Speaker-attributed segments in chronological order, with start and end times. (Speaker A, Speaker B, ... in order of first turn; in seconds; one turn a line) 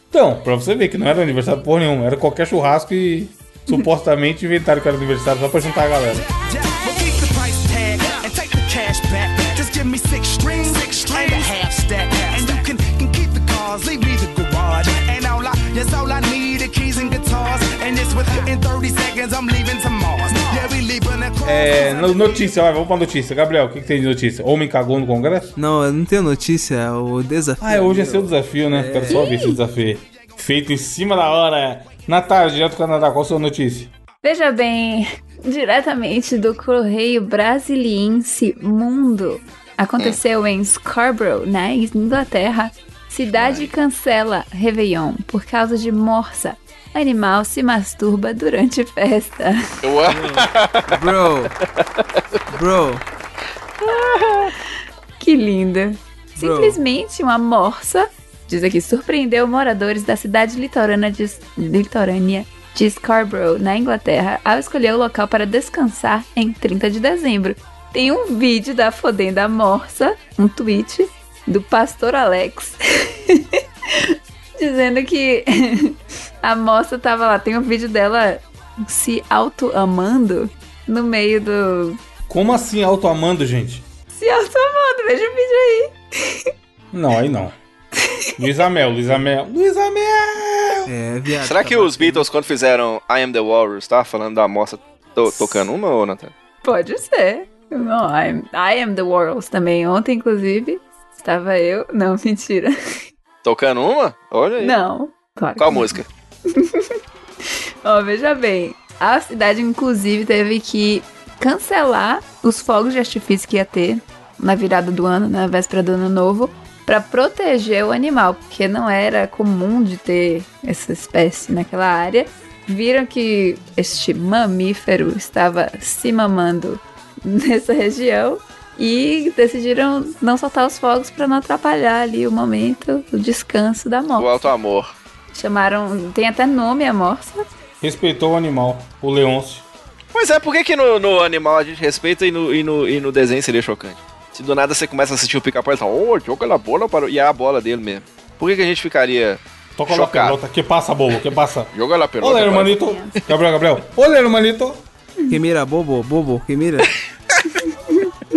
Speaker A: 0.1-6.2
Speaker B: 6.2-22.5
Speaker C: 11.1-11.4
Speaker A: 21.4-25.5
Speaker D: 25.6-29.2
Speaker A: 27.6-33.9
Speaker C: 29.1-29.6
Speaker C: 34.2-49.8
Speaker E: 43.3-43.7
Speaker E: 49.8-51.2
Speaker D: 50.1-51.5
Speaker D: 52.5-53.0
Speaker C: 53.9-54.6
Speaker E: 53.9-54.5
Speaker C: 55.2-82.0
Speaker D: 56.4-56.8
Speaker A: 82.3-83.8
Speaker C: 84.1-86.5
Speaker A: 86.9-87.5
Speaker C: 88.0-88.3
Speaker A: 88.4-90.9
Speaker D: 90.8-92.3
Speaker E: 91.4-96.3
Speaker C: 95.3-95.6
Speaker C: 96.6-102.7
Speaker E: 103.4-104.7
Speaker C: 104.6-107.0
Speaker E: 105.6-106.0
Speaker C: 107.8-134.5
Speaker E: 134.2-134.9
Speaker C: 135.3-137.5
Speaker A: 137.8-139.7
Speaker E: 140.1-150.4
Speaker A: 149.8-154.8
Speaker E: 151.7-152.8
Speaker C: 152.8-153.2
Speaker D: 155.3-156.9
Speaker C: 157.7-158.1